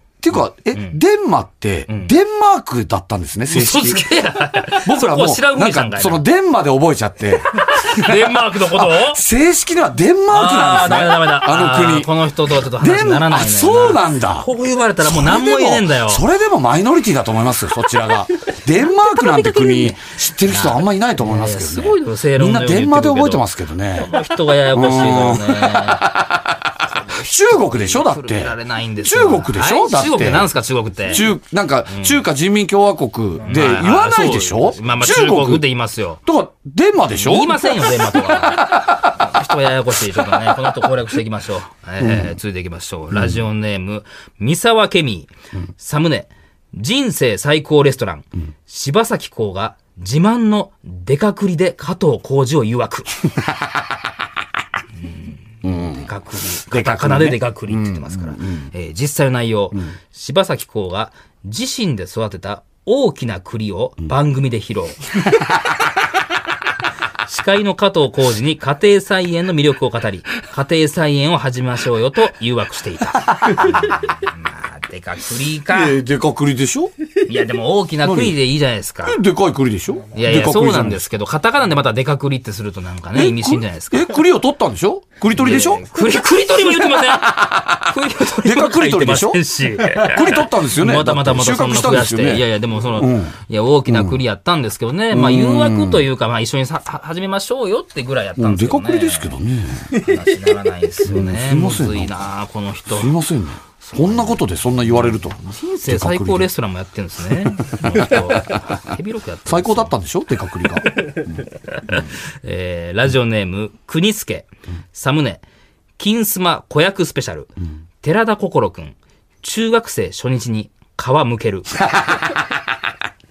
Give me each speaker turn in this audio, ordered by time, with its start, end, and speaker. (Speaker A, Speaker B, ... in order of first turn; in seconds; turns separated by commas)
Speaker A: 0.2-4.1, Speaker B: 1.9-2.1, Speaker B: 3.5-6.2, Speaker A: 4.6-14.5, Speaker B: 7.6-9.2, Speaker B: 10.3-16.2, Speaker A: 15.0-24.2, Speaker B: 18.8-26.1, Speaker A: 24.7-30.5, Speaker B: 27.1-31.3, Speaker A: 31.0-35.6, Speaker B: 31.9-32.2, Speaker B: 33.4-36.2, Speaker A: 36.2-38.9, Speaker B: 37.1-53.2, Speaker A: 42.0-42.3, Speaker B: 55.0-65.1, Speaker A: 55.6-58.7, Speaker B: 67.3-76.0, Speaker A: 73.3-74.0, Speaker A: 75.7-76.9, Speaker B: 77.2-79.2, Speaker A: 78.0-78.4, Speaker A: 79.0-81.1, Speaker B: 80.1-84.2, Speaker A: 83.1-85.8, Speaker B: 85.3-99.4, Speaker A: 86.8-93.3, Speaker A: 93.9-94.2, Speaker A: 95.1-96.0, Speaker A: 98.4-99.9, Speaker B: 99.9-103.2, Speaker A: 101.0-102.1, Speaker A: 102.9-106.5, Speaker B: 103.8-109.9, Speaker A: 107.8-108.6, Speaker A: 109.5-111.9, Speaker B: 111.7-115.4, Speaker B: 116.0-121.8, Speaker A: 121.8-122.7